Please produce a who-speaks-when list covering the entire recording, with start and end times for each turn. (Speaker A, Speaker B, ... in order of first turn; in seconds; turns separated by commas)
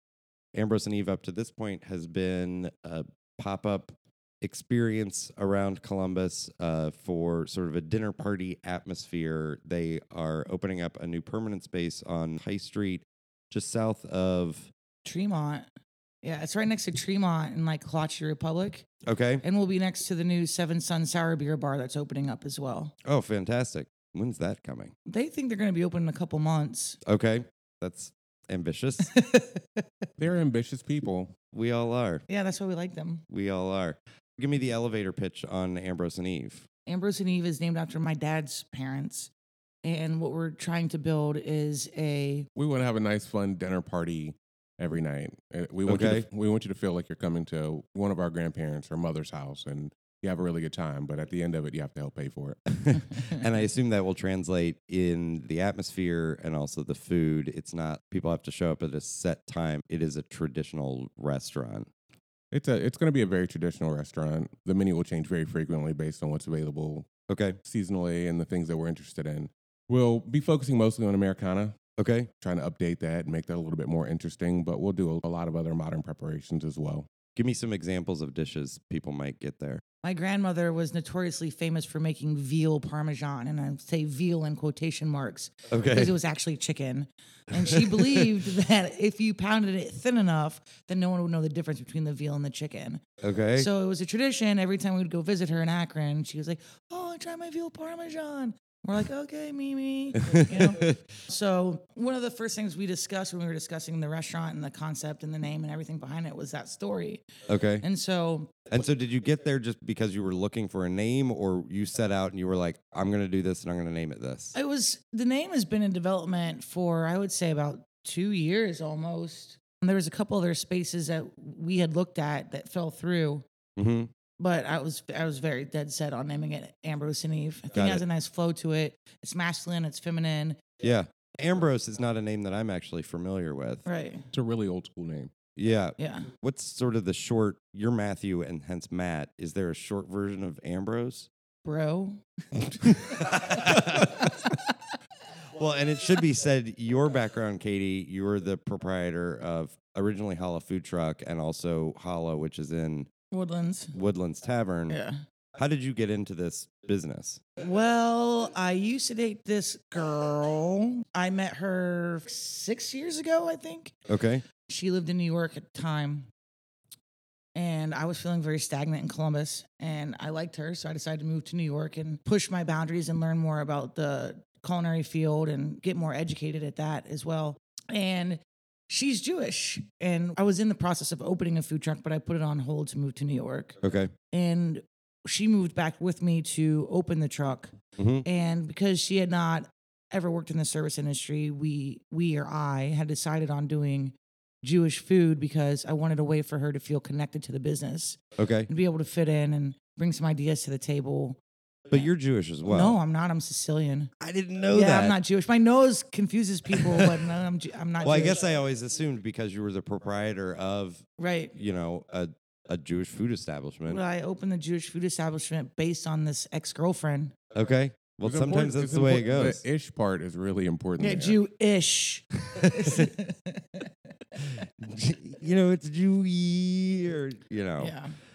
Speaker A: 0.5-14.7, Speaker B: 15.0-15.7, Speaker B: 16.2-18.9, Speaker A: 19.0-19.4, Speaker B: 19.4-22.9, Speaker A: 23.0-24.9, Speaker B: 25.1-27.0, Speaker A: 27.0-29.1, Speaker B: 29.1-29.8, Speaker C: 30.2-31.3, Speaker A: 31.5-32.2, Speaker B: 32.3-33.2, Speaker A: 33.3-36.7, Speaker B: 36.9-39.3, Speaker B: 39.8-42.5, Speaker C: 42.5-53.0, Speaker A: 45.9-46.2, Speaker A: 52.8-61.9, Speaker C: 62.5-67.1, Speaker A: 67.3-67.6, Speaker C: 67.6-71.8, Speaker A: 72.0-72.3, Speaker C: 72.4-77.1, Speaker A: 77.3-79.8, Speaker B: 80.0-93.0, Speaker A: 85.7-86.1, Speaker A: 87.5-88.3, Speaker A: 93.2-93.7, Speaker B: 93.5-107.2, Speaker A: 100.2-101.0, Speaker A: 107.5-107.8, Speaker B: 107.8-108.6, Speaker A: 108.7-114.5, Speaker B: 114.5-123.4, Speaker A: 123.8-124.1, Speaker B: 124.4-130.6, Speaker A: 127.7-128.0, Speaker A: 130.8-133.8, Speaker B: 133.8-134.2, Speaker C: 134.3-135.3, Speaker A: 135.6-141.3, Speaker B: 136.0-136.3, Speaker B: 141.6-144.7, Speaker A: 143.1-144.3, Speaker A: 145.5-153.1, Speaker B: 153.3-153.9, Speaker A: 153.9-155.0, Speaker B: 154.9-155.2, Speaker A: 155.6-157.4, Speaker B: 157.6-163.9, Speaker A: 164.1-164.4, Speaker B: 164.7-166.3, Speaker B: 167.5-183.8, Speaker A: 183.8-184.1, Speaker B: 184.3-187.7, Speaker A: 187.9-188.2, Speaker B: 188.2-201.4, Speaker A: 198.4-198.7, Speaker A: 201.9-203.0, Speaker B: 202.6-204.1, Speaker A: 204.2-205.2, Speaker B: 204.7-208.4, Speaker A: 206.7-207.3, Speaker A: 208.0-214.0, Speaker B: 211.2-211.5, Speaker B: 213.9-217.3, Speaker A: 217.5-219.6, Speaker C: 218.2-221.4, Speaker B: 221.0-223.9, Speaker A: 222.6-223.1, Speaker A: 224.4-227.9, Speaker B: 227.8-228.1